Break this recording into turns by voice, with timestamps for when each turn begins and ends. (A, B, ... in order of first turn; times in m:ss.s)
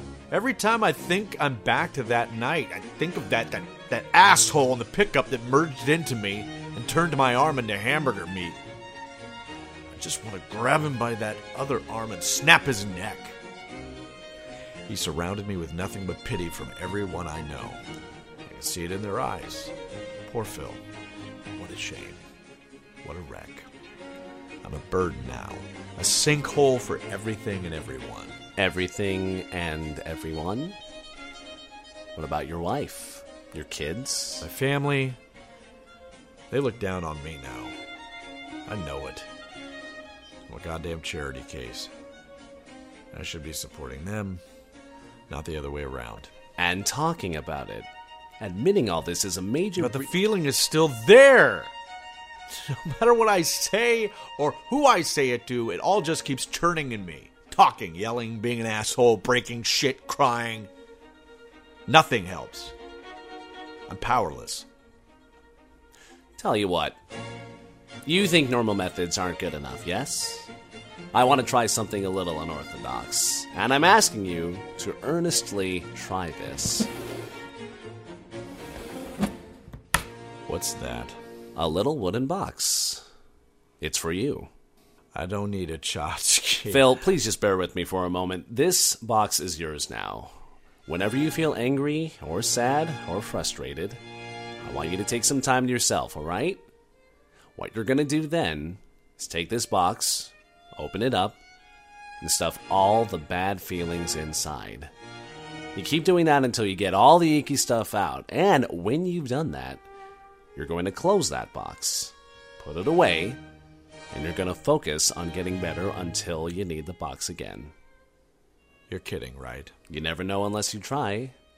0:00.3-0:08.6 A
0:09.9-0:13.4 A
0:14.8-0:17.8 A
0:18.4-0:19.7 A
0:20.2-0:20.8 A
0:21.5-0:22.2 A
0:23.0-0:23.7 A
0:24.6-0:28.4 A
0:28.6-0:30.8 B
0:32.1-0:34.5 B
0:34.4-0:35.2 A
0:36.5-0:37.8 A
0:38.6-0:39.3 A
0:40.5-0:41.9 A
0:43.1-0:44.4 A
0:45.3-0:46.3 A
0:46.6-0:47.9 B
0:48.4-0:50.1 B
0:49.8-0:51.7 A
0:52.5-1:00.7 A
1:01.9-1:02.7 A
1:03.9-1:04.7 A
1:06.4-1:07.0 B
1:08.0-1:10.5 B
1:11.1-1:16.9 B
1:20.5-1:21.2 A
1:21.6-1:23.0 B
1:23.8-1:24.5 B
1:25.1-1:27.0 A
1:26.7-1:34.0 B
1:34.6-1:36.6 B
1:37.6-1:41.4 B
1:42.2-1:44.9 B
1:45.7-1:49.8 B
1:50.5-1:53.4 B
1:54.1-1:57.7 B
1:58.9-1:59.7 A
1:59.9-2:01.3 B